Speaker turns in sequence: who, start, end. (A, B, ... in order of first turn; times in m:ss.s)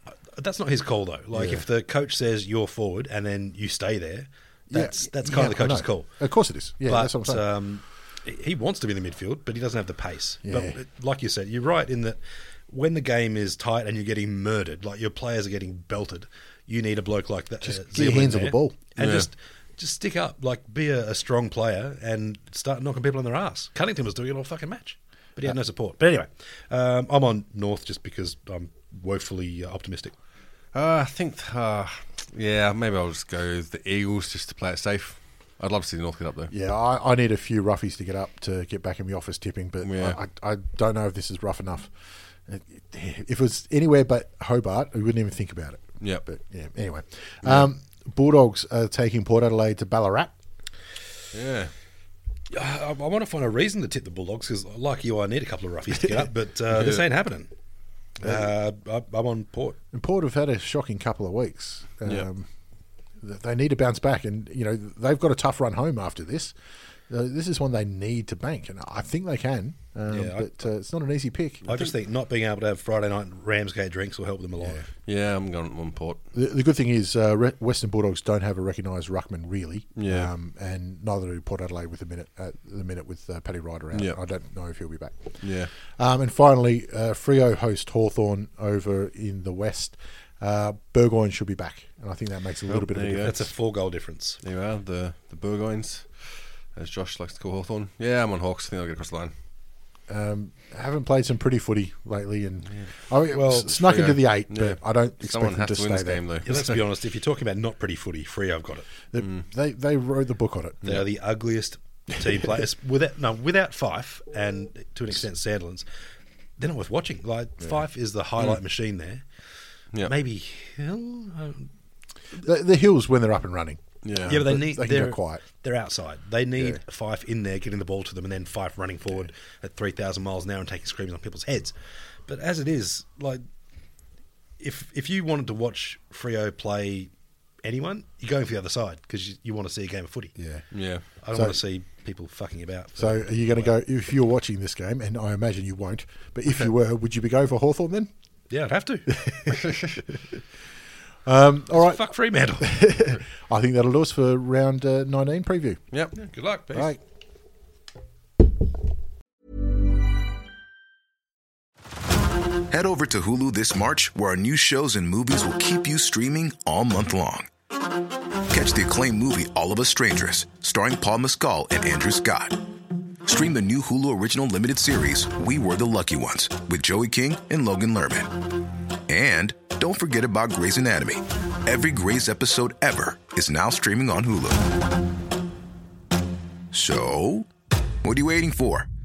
0:00.3-0:06.1 A
0:01.3-0:01.6 B
0:04.7-0:07.5 B
0:06.9-0:30.1 A
0:10.4-0:10.8 B
0:17.6-0:18.8 B
0:19.0-0:19.3 C
0:30.7-0:36.5 C
0:36.5-0:50.3 B
0:39.8-0:40.2 C
0:51.3-0:51.7 C
0:52.5-0:57.5 A
0:56.7-0:57.1 C
0:58.2-0:59.8 A
0:58.2-0:58.5 B
0:59.9-1:02.5 B
1:03.2-1:06.5 B
1:07.1-1:11.7 B
1:10.1-1:10.5 A
1:11.6-1:14.8 A
1:14.6-1:14.8 B
1:15.0-1:16.2 C
1:16.3-1:25.4 B
1:20.0-1:20.3 C
1:25.4-1:25.7 C
1:26.0-1:33.5 B
1:32.7-1:33.4 C
1:33.2-1:34.4 A
1:34.4-1:39.3 C
1:40.1-1:46.6 B
1:43.3-1:43.8 A
1:43.8-1:46.8 C
1:46.4-1:48.8 A
1:49.1-1:51.0 B
1:49.2-1:49.4 C
1:50.8-1:55.8 A
1:52.2-1:52.6 B
1:56.6-1:59.2 A
2:00.0-2:01.7 A
2:02.4-2:05.4 B
2:04.0-2:04.5 C
2:04.2-2:11.7 A
2:06.6-2:06.8 B
2:12.3-2:13.4 A
2:14.6-2:17.1 A
2:17.6-2:20.3 A
2:20.4-2:20.7 B
2:20.7-2:21.0 C
2:21.2-2:23.7 A
2:21.3-2:21.6 B
2:23.0-2:28.1 B
2:28.5-2:29.7 A
2:29.1-2:29.8 B
2:31.2-2:32.0 B
2:31.7-2:32.8 A
2:32.6-2:35.8 B
2:36.2-2:36.9 A
2:36.7-2:37.0 B
2:42.7-2:47.5 D
2:48.5-2:52.6 D
2:53.2-2:58.3 D
2:59.1-3:04.7 D
3:06.7-3:07.5 D
3:08.0-3:08.9 D